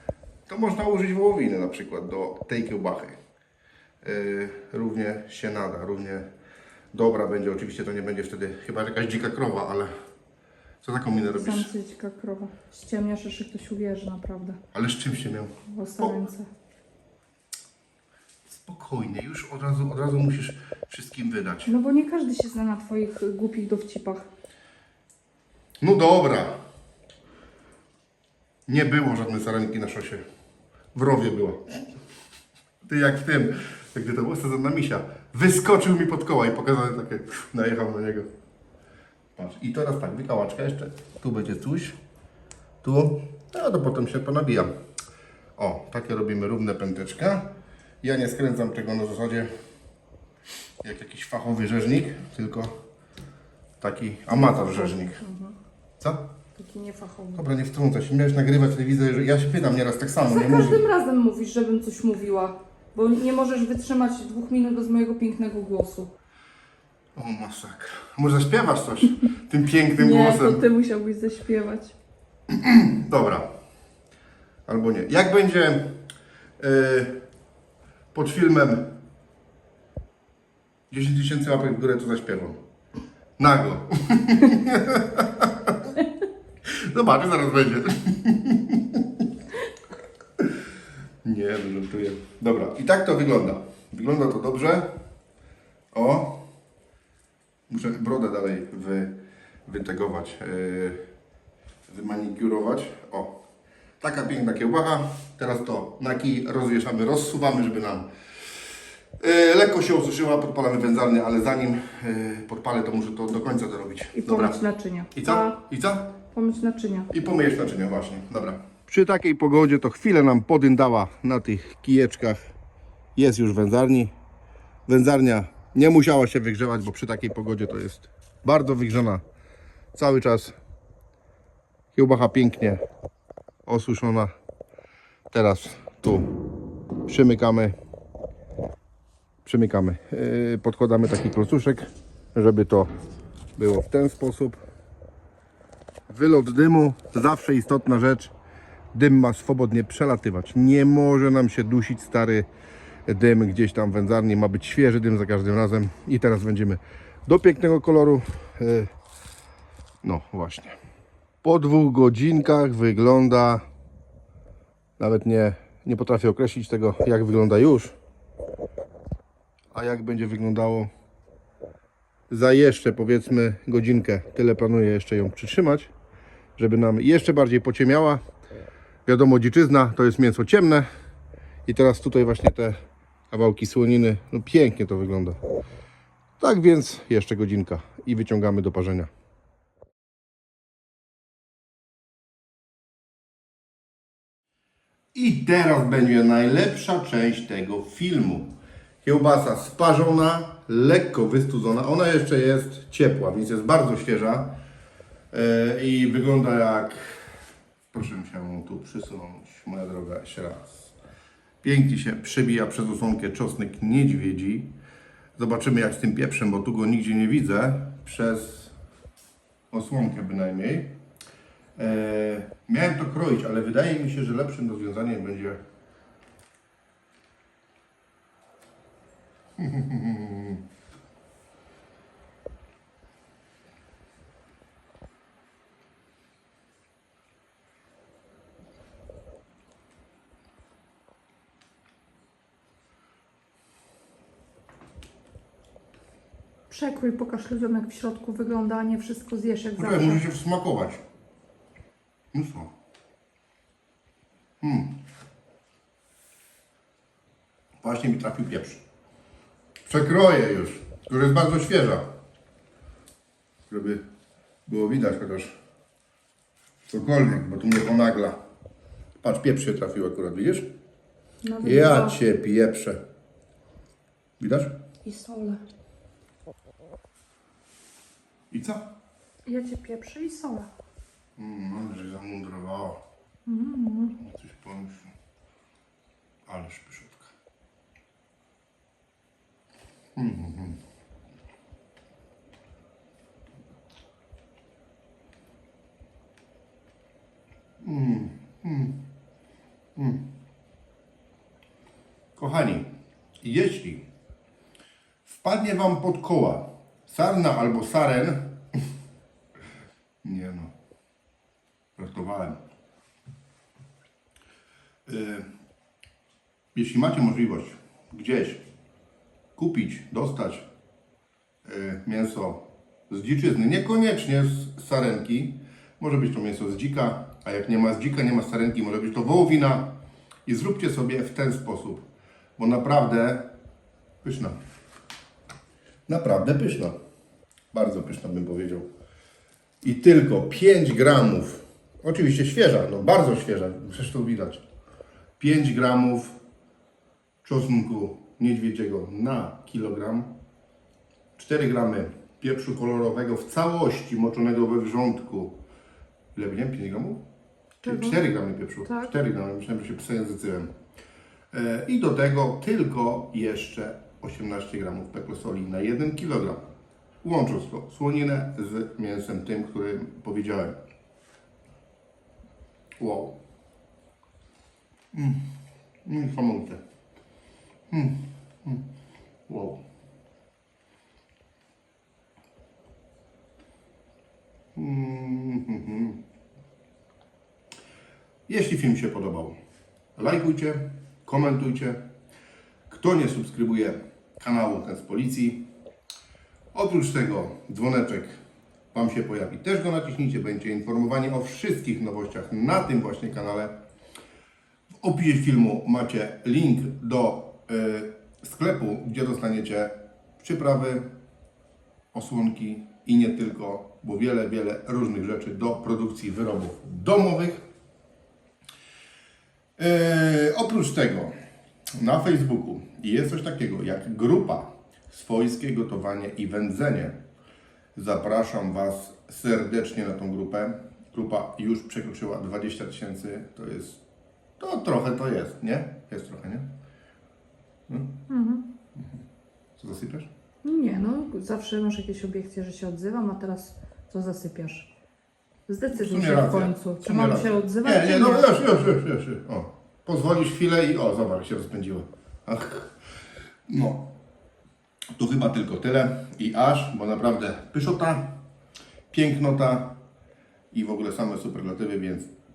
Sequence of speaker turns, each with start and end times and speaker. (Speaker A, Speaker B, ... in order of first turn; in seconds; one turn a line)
Speaker A: 0.5-3.1
Speaker A: 4.0-6.2
Speaker A: 6.9-9.9
Speaker A: 10.8-11.7
Speaker B: 11.1-14.6
Speaker A: 14.7-16.1
Speaker B: 15.7-16.4
Speaker A: 18.5-21.7
Speaker B: 21.6-24.3
Speaker A: 25.8-26.6
Speaker A: 28.7-30.2
Speaker A: 30.9-31.8
Speaker A: 32.8-38.3
Speaker A: 39.3-42.0
Speaker A: 42.8-44.7
Speaker A: 45.6-47.5
Speaker A: 48.0-49.5
Speaker A: 50.8-52.7
Speaker A: 53.8-55.2
Speaker B: 54.3-55.5
Speaker A: 56.0-56.3
Speaker B: 56.6-57.4
Speaker A: 57.3-60.8
Speaker B: 60.2-66.1
Speaker A: 67.1-70.6
Speaker B: 70.0-71.9
Speaker A: 72.5-73.5
Speaker A: 74.7-75.9
Speaker A: 76.6-77.2
Speaker A: 78.1-78.9
Speaker A: 80.9-82.6
Speaker A: 83.4-85.9
Speaker A: 86.7-89.0
Speaker A: 91.2-94.9
Speaker A: 95.9-96.4
Speaker A: 97.7-101.0
Speaker A: 101.9-103.4
Speaker A: 104.0-108.1
Speaker A: 109.2-114.6
Speaker B: 114.1-115.5
Speaker A: 115.1-116.2
Speaker B: 116.3-117.1
Speaker A: 117.1-122.5
Speaker A: 123.2-124.1
Speaker A: 124.9-129.2
Speaker A: 129.9-130.6
Speaker A: 131.9-132.8
Speaker A: 133.7-134.3
Speaker A: 135.3-136.3
Speaker A: 137.1-137.7
Speaker A: 139.4-142.9
Speaker A: 143.5-144.6
Speaker A: 146.1-148.3
Speaker A: 148.9-152.5
Speaker A: 153.1-158.9
Speaker A: 160.0-160.8
Speaker A: 161.4-163.6
Speaker A: 165.0-167.9
Speaker A: 169.7-170.9
Speaker A: 172.3-175.9
Speaker A: 176.6-178.2
Speaker A: 179.1-180.9
Speaker A: 181.7-182.7
Speaker A: 183.3-185.4
Speaker A: 186.4-189.1
Speaker A: 195.1-204.5
Speaker A: 205.3-207.2
Speaker A: 207.9-210.9
Speaker A: 211.6-214.7
Speaker A: 215.4-218.7
Speaker A: 219.7-221.0
Speaker A: 221.8-225.6
Speaker A: 229.6-230.6
Speaker B: 246.7-250.2
Speaker A: 249.8-251.0
Speaker A: 252.3-252.7
Speaker A: 254.6-254.9
Speaker A: 257.8-258.8
Speaker A: 259.9-262.0
Speaker A: 263.7-264.0
Speaker A: 264.7-265.6
Speaker A: 266.9-268.4
Speaker A: 269.2-270.7
Speaker B: 271.4-272.2
Speaker A: 271.6-273.0
Speaker A: 274.4-274.8
Speaker B: 275.0-275.6
Speaker A: 278.5-278.9
Speaker B: 279.4-280.7
Speaker A: 281.4-283.0
Speaker B: 283.4-284.1
Speaker A: 284.2-285.1
Speaker A: 286.4-287.3
Speaker A: 290.1-290.8
Speaker A: 297.8-299.0
Speaker A: 299.9-300.3
Speaker A: 302.4-304.0
Speaker A: 305.2-308.6
Speaker A: 310.2-310.7
Speaker A: 311.9-312.6
Speaker A: 315.1-315.5
Speaker A: 316.7-318.6
Speaker A: 319.6-320.7
Speaker A: 321.6-329.9
Speaker A: 330.4-332.0
Speaker A: 332.6-333.5
Speaker A: 334.2-334.5
Speaker A: 336.1-336.9
Speaker A: 337.7-338.9
Speaker A: 339.8-344.6
Speaker A: 345.4-346.4
Speaker A: 347.4-350.3
Speaker A: 351.4-355.6
Speaker A: 356.3-357.2
Speaker B: 357.8-358.2
Speaker A: 357.8-360.7
Speaker B: 358.8-359.1
Speaker A: 361.5-366.6
Speaker A: 367.2-370.8
Speaker A: 373.0-373.4
Speaker A: 375.1-375.4
Speaker A: 376.0-376.8
Speaker A: 377.9-378.8
Speaker A: 379.5-379.8
Speaker A: 384.7-386.2
Speaker A: 388.5-389.5
Speaker A: 390.1-392.0
Speaker A: 392.9-395.7
Speaker A: 396.7-398.4
Speaker A: 398.9-403.8
Speaker A: 405.0-411.1
Speaker A: 412.1-417.6
Speaker A: 419.8-421.3
Speaker A: 421.9-427.2
Speaker A: 427.9-434.0
Speaker A: 434.6-436.7
Speaker A: 437.9-438.2
Speaker B: 438.3-438.6
Speaker A: 439.8-440.3
Speaker B: 440.6-444.9
Speaker B: 445.7-448.5
Speaker A: 445.9-452.9
Speaker A: 453.7-454.1
Speaker A: 455.1-458.4
Speaker A: 459.1-460.0
Speaker A: 460.7-462.3